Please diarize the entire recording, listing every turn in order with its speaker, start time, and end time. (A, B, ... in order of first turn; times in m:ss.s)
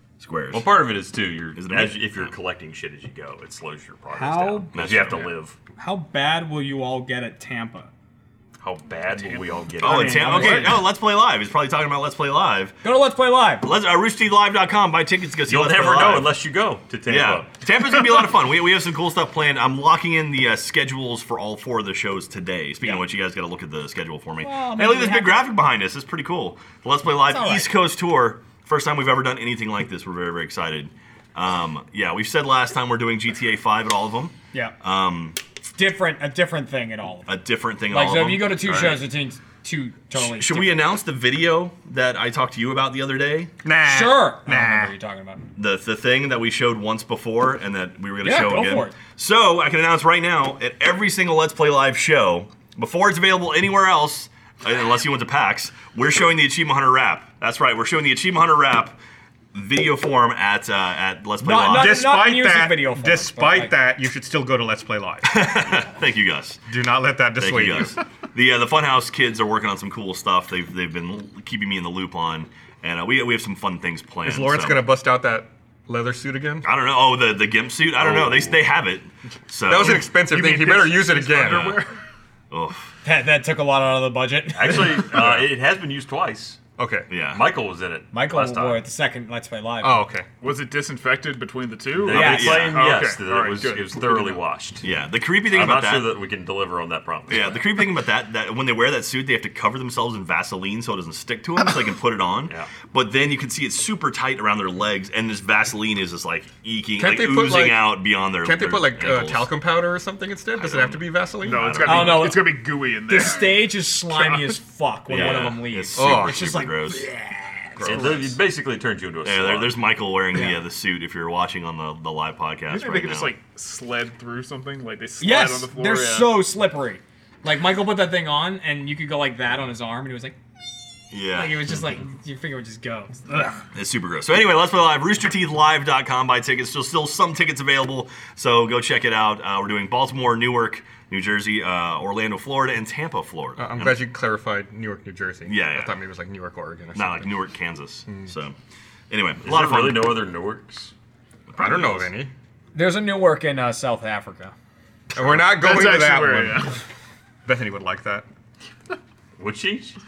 0:00.2-0:00.8 A
0:00.5-0:05.6 B
0:01.6-0:02.3 A
0:04.1-0:04.7 C
0:04.7-0:05.3 A
0:05.8-0:07.9 C
0:08.6-0:10.7 B
0:09.8-0:12.8 A
0:09.8-0:10.8 C
0:12.8-0:13.7 C
0:13.6-0:16.4 A
0:15.5-0:17.5 B
0:17.1-0:35.4 A
0:24.4-0:25.5 C
0:27.2-0:27.7 C
0:35.8-0:37.4 C
0:37.3-0:39.0 A
0:37.9-0:40.8 C
0:40.1-0:43.5 A
0:43.6-0:44.9 D
0:43.8-0:45.4 C
0:45.6-0:59.0 A
0:48.2-0:49.0 C
0:59.5-1:02.1 A
1:01.4-1:03.7 C
1:01.6-1:05.5 D
1:05.2-1:06.6 A
1:06.7-1:08.0 D
1:07.4-1:14.8 A
1:14.2-1:16.7 D
1:16.6-1:20.1 A
1:18.0-1:18.6 B
1:19.7-1:21.8 D
1:20.1-1:21.9 E
1:21.4-1:21.8 A
1:22.5-1:22.9 A
1:23.0-1:25.1 C
1:24.6-1:26.6 B
1:26.8-1:27.1 D
1:27.1-1:27.4 A
1:27.3-1:28.8 B
1:28.1-1:30.0 C
1:29.8-1:30.3 D
1:30.4-1:34.4 E
1:31.9-1:34.8 B
1:32.1-1:32.8 C
1:32.1-1:32.9 A
1:34.8-1:36.2 A
1:35.5-1:37.6 B
1:37.3-1:49.5 A
1:47.0-1:51.8 D
1:50.6-1:52.4 A
1:51.4-1:54.6 E
1:51.8-1:58.3 C
1:55.1-1:57.1 A
1:56.0-1:56.5 D
1:57.8-1:58.3 D
1:57.8-1:59.8 B
1:59.2-2:03.3 A
2:00.3-2:00.6 C
2:02.7-2:06.4 E
2:05.2-2:10.4 C
2:11.1-2:11.8 A
2:11.2-2:13.7 C
2:13.8-2:24.0 A
2:23.6-2:27.3 D
2:25.5-2:25.9 A
2:27.0-2:28.6 A
2:28.1-2:28.3 D
2:29.1-2:30.2 A
2:29.4-2:30.9 B
2:31.5-2:32.1 A
2:31.6-2:32.3 D
2:32.7-2:34.5 C
2:35.1-2:36.7 D
2:35.4-2:36.8 E
2:37.4-2:38.2 D
2:39.4-2:40.0 B